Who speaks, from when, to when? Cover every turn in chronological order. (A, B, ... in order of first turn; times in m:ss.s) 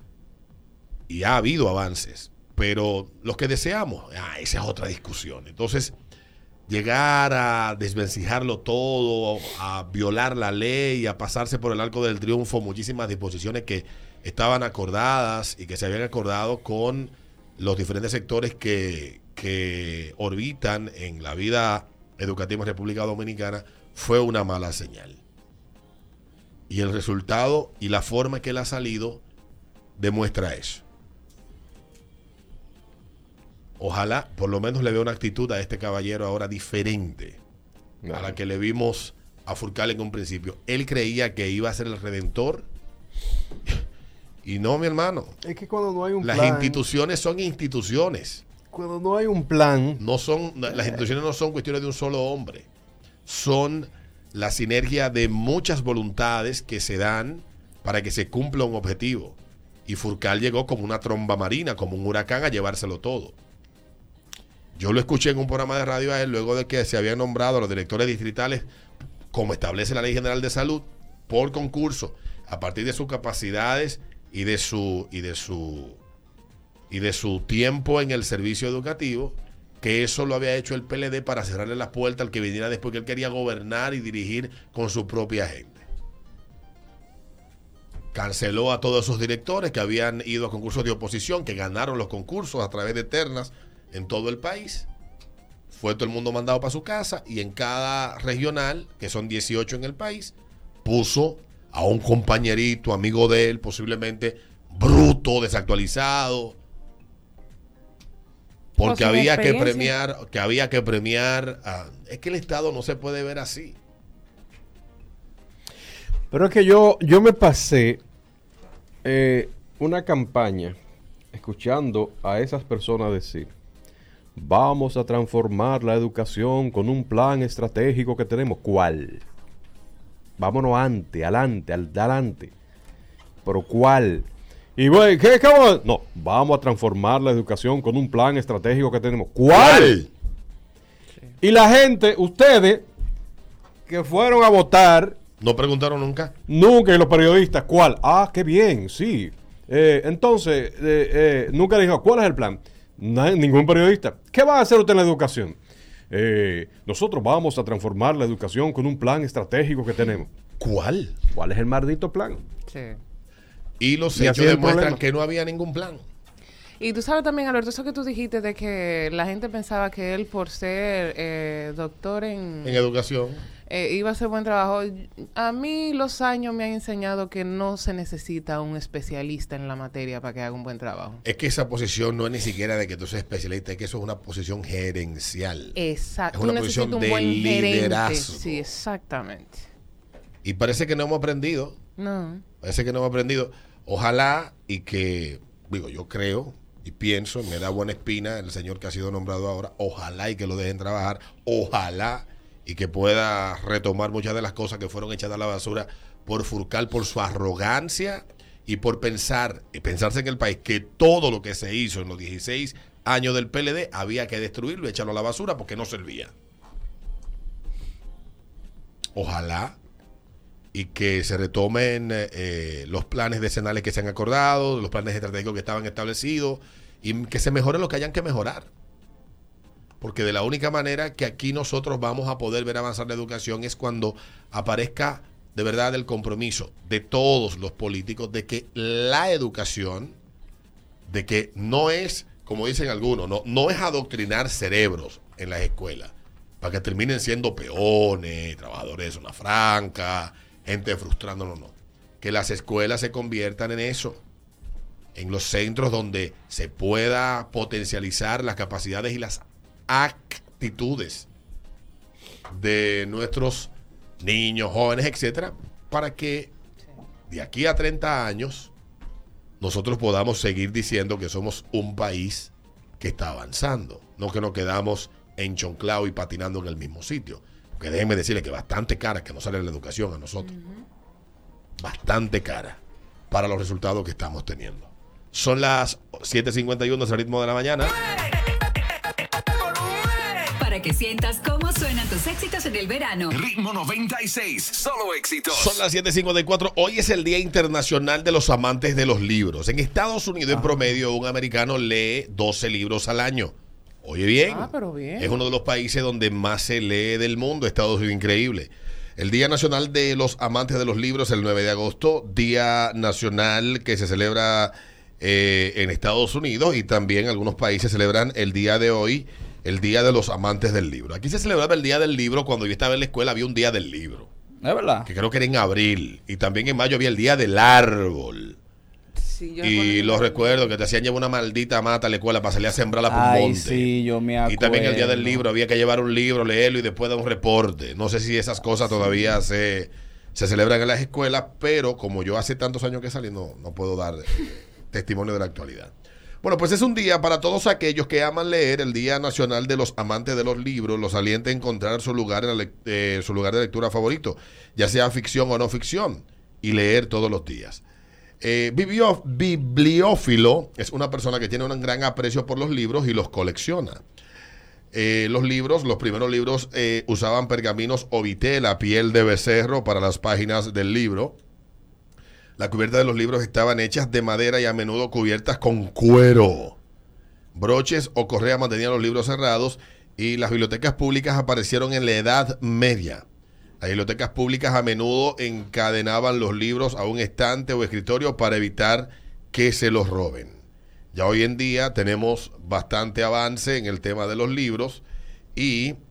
0:01.1-0:05.9 A
0:06.7-0:25.2 A
0:26.7-0:29.2 A
0:30.0-0:30.8 A
0:33.8-0:37.4 A
0:38.0-0:38.4 B
0:38.1-0:42.7 A
0:44.4-0:45.3 A
0:45.4-0:46.8 B
0:46.2-0:48.4 A
0:48.7-0:50.0 B
0:50.0-0:52.7 A
0:53.2-1:03.3 A
1:04.8-1:08.7 A
1:09.3-1:16.0 A
1:16.9-1:25.8 A
1:28.1-1:34.9 A
1:35.7-1:46.6 A
1:48.8-1:53.8 A
1:48.8-1:49.9 C
1:56.3-1:58.0 B
1:59.0-2:00.8 B
2:01.3-2:03.5 B
2:04.4-2:09.2 B
2:10.4-2:12.5 B
2:13.4-2:20.0 B
2:19.5-2:20.1 A
2:21.4-2:22.8 B
2:23.8-2:25.2 B
2:25.4-2:26.3 A
2:26.5-2:35.6 B
2:36.1-2:40.3 B
2:40.6-2:41.1 A
2:41.3-2:42.4 B
2:42.7-2:43.0 C
2:43.8-2:46.0 A
2:44.1-2:45.0 B
2:46.8-2:52.9 C
2:52.6-2:53.4 A
2:53.7-3:01.2 C
3:01.2-3:05.8 A
3:05.7-3:09.6 C
3:06.3-3:08.7 A
3:10.4-3:11.8 A
3:12.0-3:12.4 C
3:12.6-3:36.3 A
3:39.2-3:39.8 A
3:40.7-3:48.7 A
3:50.0-4:00.1 A
4:01.1-4:14.2 A
4:15.1-4:21.3 A
4:22.5-4:26.5 A
4:27.3-4:28.7 A
4:29.6-4:40.5 A
4:40.4-4:40.8 C
4:41.8-4:42.8 A
4:43.3-4:47.9 A
4:49.9-4:53.4 D
4:53.5-4:55.6 E
4:55.5-5:24.3 A
5:04.5-5:05.3 C
5:24.6-5:25.1 F
5:25.0-5:28.6 A
5:29.2-5:30.7 C
5:29.6-5:33.9 A
5:33.1-5:35.4 F
5:34.4-5:57.8 A
5:58.4-6:04.0 A
6:04.9-6:11.4 A
6:12.6-6:16.8 A
6:17.5-6:23.2 A
6:23.8-6:30.6 A
6:31.1-6:35.0 A
6:35.5-6:36.0 A